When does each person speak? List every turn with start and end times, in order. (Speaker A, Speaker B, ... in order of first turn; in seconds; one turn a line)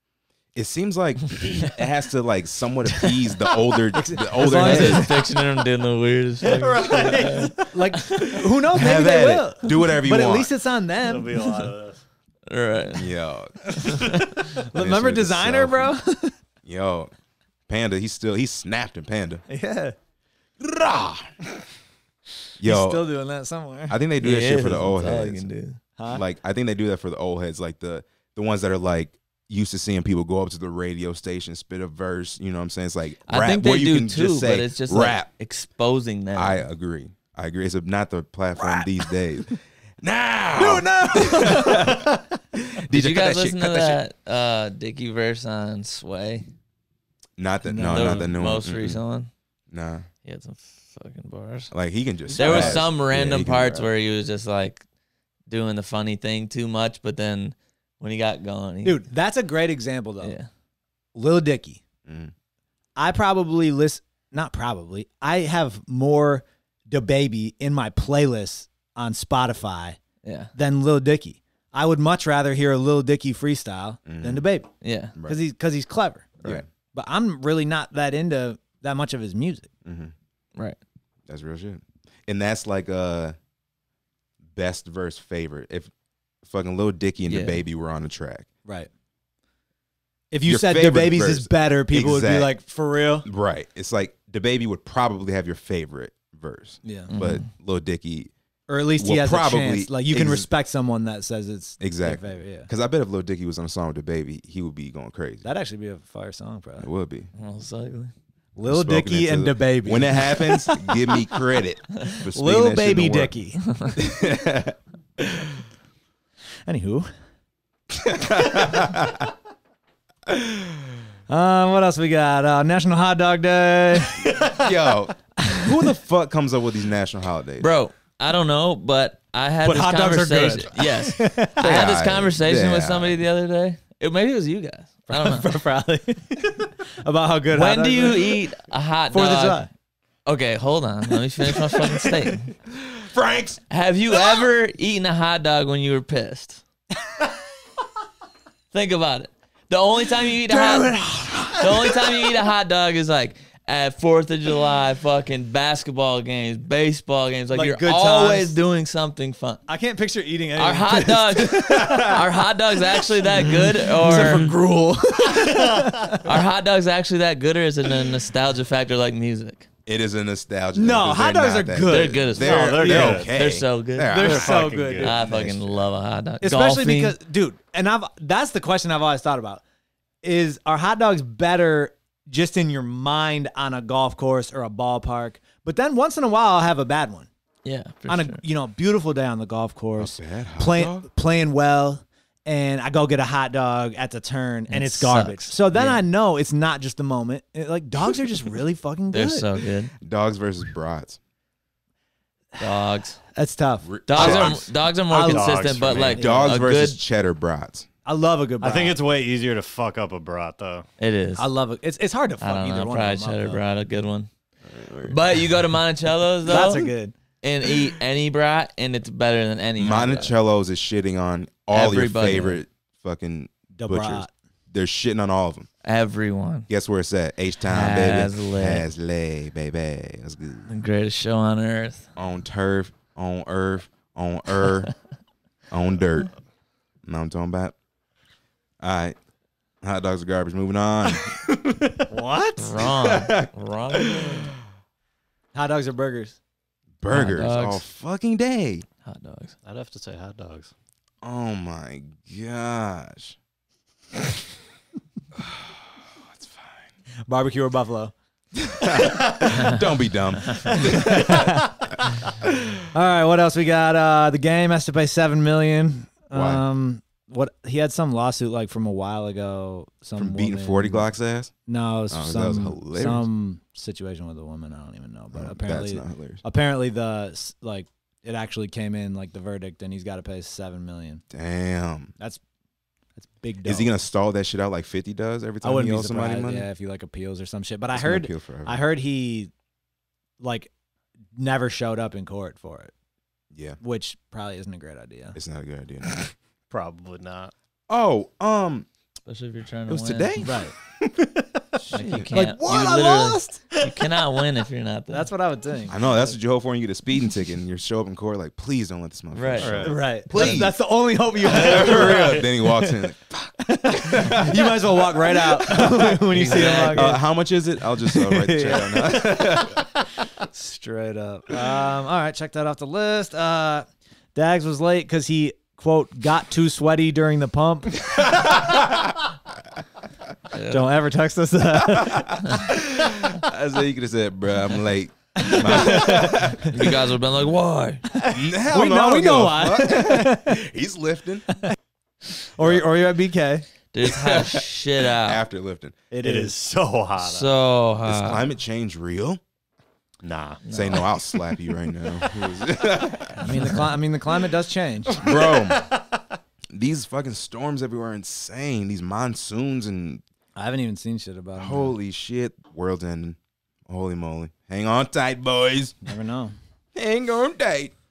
Speaker A: 0.5-5.1
Speaker B: 3.9-5.2
Speaker C: 4.4-8.3
Speaker D: 6.4-7.8
Speaker B: 7.7-11.4
Speaker A: 8.7-10.5
Speaker D: 11.0-12.0
Speaker C: 12.5-13.1
Speaker A: 12.9-13.8
Speaker B: 13.8-16.3
Speaker C: 13.9-14.2
Speaker A: 14.7-15.9
Speaker A: 16.6-17.1
Speaker A: 17.7-19.4
Speaker B: 19.5-19.9
Speaker A: 20.6-21.3
Speaker A: 22.6-23.0
Speaker B: 22.6-24.0
Speaker A: 23.9-25.4
Speaker C: 24.2-25.8
Speaker B: 26.0-26.2
Speaker A: 26.1-35.3
Speaker C: 33.3-36.6
Speaker A: 36.3-44.0
Speaker B: 38.6-38.9
Speaker B: 40.5-42.2
Speaker C: 42.9-46.5
Speaker A: 47.4-49.0
Speaker B: 47.6-48.2
Speaker C: 47.8-49.3
Speaker A: 49.7-50.1
Speaker C: 50.2-51.7
Speaker A: 51.7-53.9
Speaker B: 52.3-52.9
Speaker C: 52.4-54.8
Speaker C: 55.5-59.0
Speaker B: 58.8-60.3
Speaker C: 60.2-60.5
Speaker B: 61.1-61.8
Speaker A: 62.0-62.3
Speaker B: 63.0-70.0
Speaker C: 70.2-70.5
Speaker B: 70.5-74.7
Speaker A: 74.0-74.4
Speaker C: 74.8-75.1
Speaker B: 75.2-76.3
Speaker B: 76.9-79.7
Speaker A: 79.8-80.1
Speaker A: 81.3-83.3
Speaker A: 84.5-85.9
Speaker A: 86.4-88.5
Speaker C: 87.3-87.6
Speaker B: 90.3-93.2
Speaker A: 90.5-92.5
Speaker A: 93.2-98.3
Speaker B: 96.8-97.1
Speaker C: 97.1-97.5
Speaker B: 98.7-102.7
Speaker A: 99.0-100.5
Speaker A: 101.8-105.5
Speaker B: 105.4-106.9
Speaker A: 106.8-107.3
Speaker C: 107.4-108.1
Speaker B: 108.5-111.2
Speaker A: 108.7-113.3
Speaker B: 112.3-113.7
Speaker A: 113.9-115.5
Speaker B: 116.7-117.1
Speaker A: 117.9-119.3
Speaker A: 120.3-120.8
Speaker B: 121.3-124.4
Speaker A: 124.4-127.7
Speaker B: 125.4-125.8
Speaker C: 127.6-135.5
Speaker B: 129.6-131.8
Speaker A: 131.6-133.2
Speaker B: 135.1-138.4
Speaker C: 137.5-139.7
Speaker B: 139.1-139.7
Speaker C: 140.2-142.5
Speaker A: 142.7-143.6
Speaker C: 143.7-146.6
Speaker C: 148.7-159.6
Speaker B: 150.5-152.2
Speaker B: 157.5-158.6
Speaker B: 159.7-162.2
Speaker C: 160.6-164.5
Speaker A: 161.6-162.2
Speaker B: 163.2-166.3
Speaker D: 165.4-166.1
Speaker C: 166.2-169.7
Speaker A: 169.8-175.9
Speaker B: 170.7-173.3
Speaker C: 171.9-177.2
Speaker D: 172.4-173.3
Speaker B: 174.1-175.2
Speaker D: 174.1-175.2
Speaker B: 176.4-179.6
Speaker B: 180.2-187.3
Speaker C: 187.6-188.4
Speaker B: 188.1-199.5
Speaker A: 190.0-191.1
Speaker C: 194.7-195.6
Speaker C: 199.1-199.9
Speaker A: 200.0-201.2
Speaker C: 202.6-203.2
Speaker B: 203.3-204.4
Speaker A: 203.8-204.7
Speaker C: 204.1-207.0
Speaker D: 204.2-204.5
Speaker B: 205.1-205.5
Speaker D: 205.2-206.2
Speaker A: 206.0-207.8
Speaker B: 206.2-206.6
Speaker B: 208.0-209.0
Speaker D: 208.6-210.8
Speaker C: 211.0-211.4
Speaker B: 211.4-213.6
Speaker C: 212.4-214.3
Speaker A: 214.7-215.3
Speaker C: 215.0-216.9
Speaker B: 216.5-217.1
Speaker C: 217.4-220.3
Speaker A: 219.8-225.7
Speaker C: 221.7-222.6
Speaker B: 223.8-224.3
Speaker C: 225.8-226.7
Speaker A: 226.7-230.7
Speaker C: 227.7-228.8
Speaker C: 230.7-232.1
Speaker A: 232.2-234.9
Speaker A: 235.7-236.3
Speaker A: 237.0-237.7
Speaker A: 238.8-239.1
Speaker A: 239.8-241.4
Speaker B: 242.1-242.8
Speaker C: 242.6-244.5
Speaker A: 242.9-244.5
Speaker B: 245.5-246.4
Speaker A: 247.0-248.8
Speaker C: 247.1-247.8
Speaker C: 249.0-249.5
Speaker D: 249.6-250.7
Speaker A: 251.2-253.3
Speaker A: 255.3-256.8
Speaker B: 257.3-258.1
Speaker A: 258.6-262.7
Speaker B: 260.7-261.7
Speaker B: 262.9-271.1
Speaker A: 266.3-266.6
Speaker A: 270.1-271.5
Speaker B: 271.7-281.2
Speaker A: 272.1-273.3
Speaker A: 275.3-276.4
Speaker A: 281.3-282.1
Speaker B: 283.2-283.9
Speaker A: 283.6-286.7
Speaker B: 285.6-289.5
Speaker A: 287.9-288.8
Speaker B: 290.4-290.7
Speaker B: 291.4-292.9
Speaker A: 293.5-293.8
Speaker B: 293.8-295.4
Speaker A: 295.3-296.2
Speaker D: 296.7-297.5
Speaker A: 297.9-298.9
Speaker C: 299.2-300.5
Speaker A: 299.9-300.5
Speaker B: 300.4-300.7
Speaker D: 301.0-301.6
Speaker A: 301.8-302.3
Speaker C: 301.9-305.3
Speaker B: 302.3-303.6
Speaker B: 305.1-306.3
Speaker A: 305.9-310.8
Speaker C: 309.3-309.9
Speaker D: 309.6-309.9
Speaker B: 309.9-313.0
Speaker A: 311.4-319.9
Speaker C: 311.7-312.2
Speaker B: 313.6-317.2
Speaker C: 316.3-317.2
Speaker B: 318.0-319.7
Speaker B: 320.5-328.3
Speaker A: 328.1-329.1
Speaker C: 330.5-330.8
Speaker B: 330.7-332.6
Speaker A: 331.7-337.0
Speaker B: 335.4-336.6
Speaker C: 336.6-338.0
Speaker B: 338.1-340.6
Speaker A: 338.3-341.5
Speaker B: 342.5-343.6
Speaker C: 343.9-345.4
Speaker A: 344.0-346.0
Speaker B: 346.1-346.5
Speaker D: 346.2-347.5
Speaker C: 347.2-348.4
Speaker A: 348.1-349.4
Speaker D: 350.2-351.0
Speaker C: 350.6-351.1
Speaker A: 350.7-353.6
Speaker B: 353.4-355.1
Speaker C: 353.5-353.8
Speaker D: 355.1-356.2
Speaker A: 355.2-355.8
Speaker A: 356.7-360.2
Speaker B: 360.6-361.9
Speaker A: 361.6-363.4
Speaker A: 363.9-366.0
Speaker B: 366.1-366.5
Speaker A: 366.9-367.9